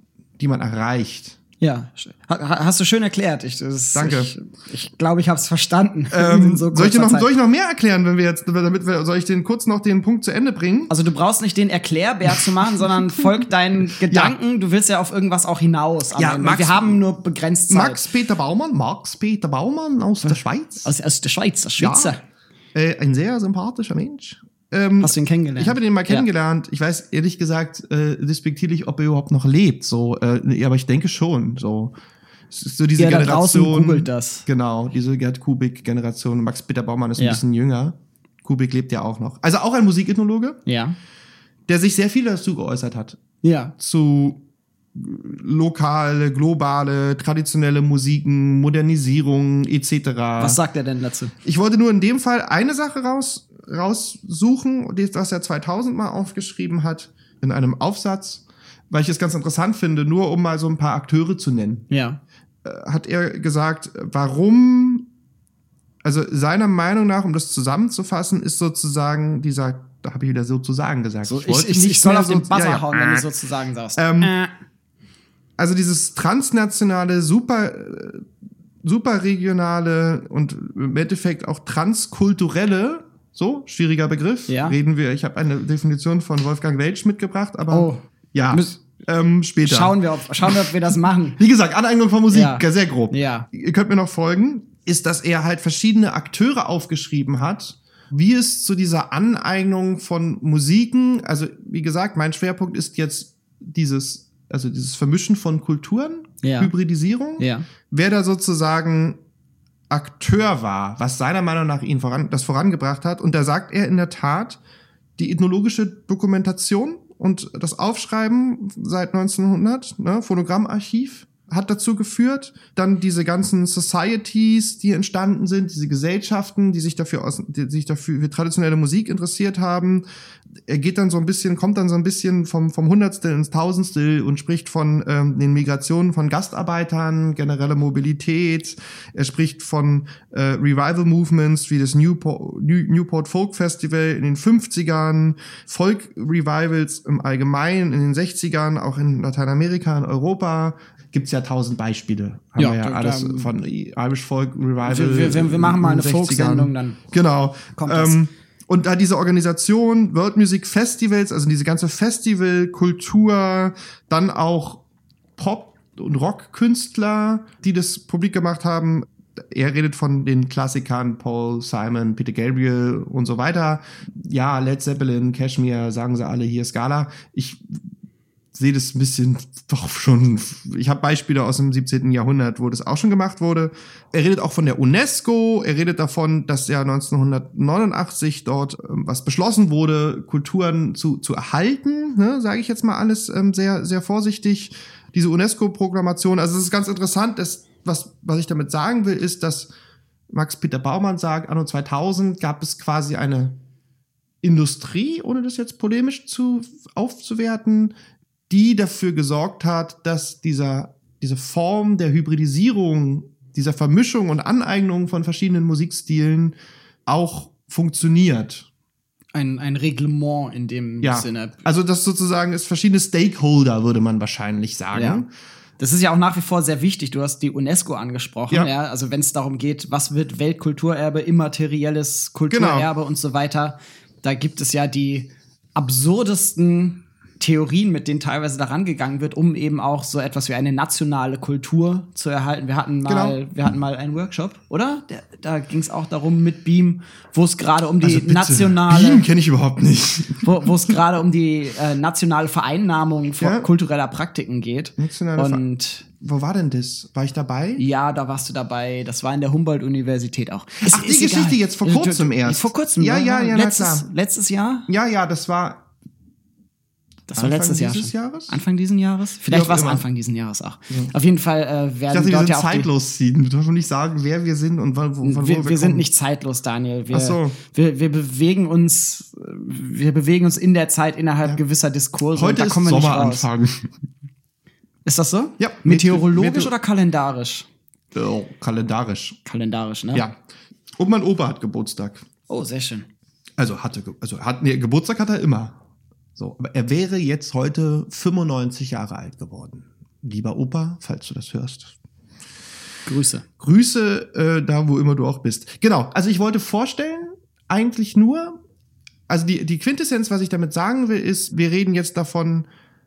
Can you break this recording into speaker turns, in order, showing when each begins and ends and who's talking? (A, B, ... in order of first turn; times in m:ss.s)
0:00.4-0:01.4 A
0:01.6-0:07.3 B
0:04.0-0:04.3 A
0:06.1-0:10.9 A
0:10.9-0:18.0 B
0:12.3-0:14.4 A
0:16.1-0:17.0 A
0:17.7-0:20.9 A
0:20.2-0:22.2 B
0:21.8-0:22.1 A
0:22.7-0:32.0 A
0:25.0-0:26.3 B
0:32.5-0:40.6 A
0:33.0-0:34.4 B
0:40.7-0:41.0 B
0:41.7-0:43.2 A
0:43.4-0:43.7 B
0:43.8-0:44.4 A
0:45.0-0:50.6 A
0:50.4-0:51.3 B
0:51.4-1:01.9 A
1:01.9-1:02.2 B
1:02.6-1:05.1 A
1:06.0-1:13.3 A
1:11.2-1:14.5 B
1:14.0-1:14.3 A
1:15.6-1:18.2 A
1:18.8-1:30.7 A
1:24.5-1:24.8 B
1:27.7-1:28.8 B
1:29.6-1:31.4 B
1:31.4-1:49.2 A
1:32.3-1:33.5 B
1:46.4-1:46.7 B
1:47.4-1:47.7 B
1:49.9-1:54.6 A
1:55.2-2:10.0 A
2:10.6-2:44.8 A
2:32.6-2:33.5 B
2:34.8-2:37.0 B
2:37.8-2:38.2 B
2:45.4-2:57.8 A
2:58.5-3:19.7 A
3:20.3-3:23.6 A
3:24.4-3:27.9 A
3:28.5-3:36.6 A
3:37.1-3:38.7 A
3:39.4-3:41.6 B
3:41.0-3:45.3 A
3:44.9-3:45.2 B
3:45.8-4:09.3 B
3:52.5-3:52.9 A
4:03.1-4:03.4 A
4:08.0-4:11.0 A
4:10.4-4:16.1 B
4:13.4-4:13.7 A
4:15.0-4:15.6 A
4:16.2-4:17.8 A
4:17.8-4:24.9 B
4:20.8-4:24.1 A
4:24.9-4:25.8 A
4:27.3-4:32.9 B
4:27.3-4:28.6 A
4:29.5-4:30.0 A
4:32.1-4:36.1 A
4:35.2-4:43.5 B
4:37.1-4:37.6 A
4:42.3-4:43.9 A
4:45.0-4:47.7 B
4:45.6-4:46.7 A
4:48.1-4:49.4 A
4:49.5-4:50.3 B
4:51.0-4:52.3 A
4:52.5-4:53.1 B
4:53.6-4:55.8 A
4:56.4-5:02.0 A
5:03.1-5:03.5 B
5:03.6-5:08.6 A
5:09.3-5:12.7 A